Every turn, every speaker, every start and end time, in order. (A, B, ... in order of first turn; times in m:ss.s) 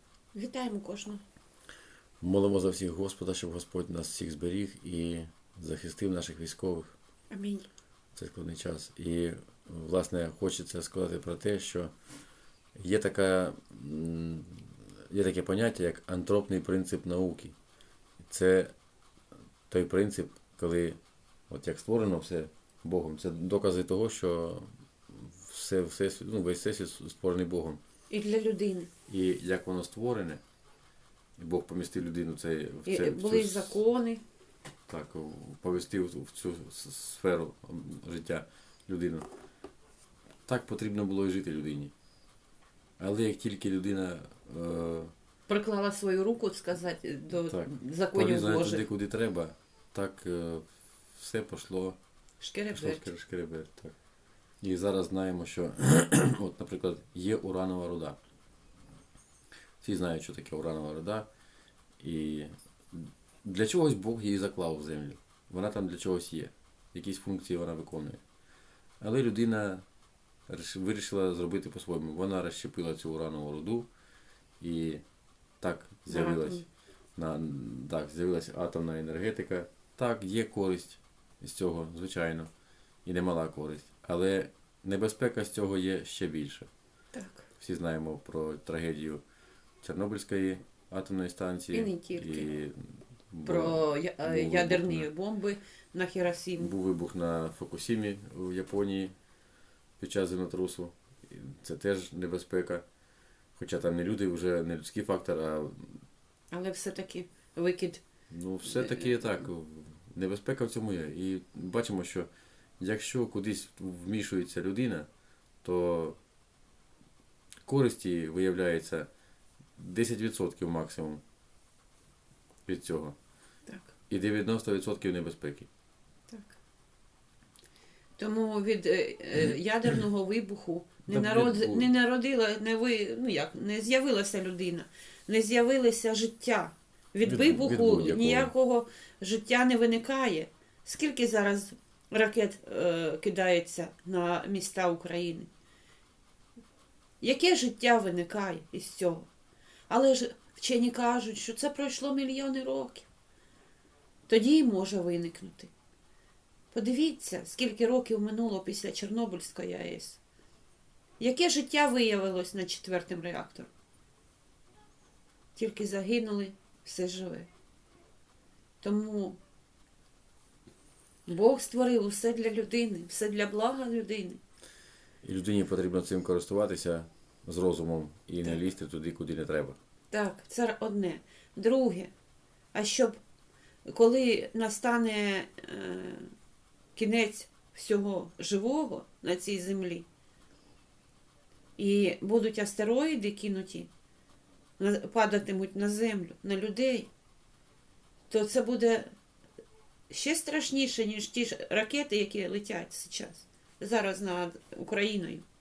0:00.3-0:01.2 A
0:02.2-0:06.9 B
0:07.3-0:07.7 A
0:08.2-0:11.9 B
0:12.8-0:17.6 B
0:18.3-0:18.7 B
0:19.7-0:21.0 B
0:21.5-0:27.8 B
0:28.1-0:28.9 A
0:29.1-0:30.4 B
0:31.4-0:33.8 B
0:32.9-0:34.2 A
0:34.9-0:39.3 B
0:40.5-0:41.9 B
0:43.0-0:45.1 B
0:45.5-0:48.8 A
0:47.4-0:52.0 B
0:52.4-0:53.1 A
0:52.7-0:54.0 B
0:54.6-0:58.2 B
0:59.8-1:01.3 B
1:02.0-1:08.2 B
1:09.0-1:09.8 B
1:10.5-1:13.9 B
1:14.6-1:15.0 B
1:15.6-1:16.6 B
1:16.1-1:16.6 A
1:17.2-1:22.5 B
1:23.0-1:26.7 B
1:27.1-1:27.5 A
1:27.6-1:29.2 B
1:29.8-1:35.1 B
1:31.7-1:32.5 A
1:33.4-1:36.7 A
1:36.6-1:39.2 B
1:40.0-1:42.8 B
1:43.6-1:46.0 B
1:46.5-1:48.0 A
1:48.3-1:55.1 B
1:48.6-1:49.2 A
1:55.6-1:56.2 B
1:57.6-1:59.1 B
1:59.8-2:01.2 B
2:02.7-2:03.2 B
2:04.1-2:05.7 B
2:06.3-2:06.6 A
2:08.2-2:25.5 A
2:11.1-2:11.9 B
2:17.2-2:18.5 B
2:27.2-2:29.3 A
2:29.9-2:33.1 A
2:34.3-2:35.7 A
2:36.7-2:40.2 A
2:41.2-2:43.7 A
2:45.6-2:47.5 A
2:48.8-2:49.4 A
2:51.3-2:54.4 A
2:55.2-2:59.8 B
3:00.1-3:02.1 A
3:02.7-3:03.2 A
3:03.9-3:06.3 A
3:07.0-3:10.1 A
3:11.8-3:13.9 A
3:14.8-3:17.1 A
3:18.3-3:19.1 A
3:20.1-3:25.4 A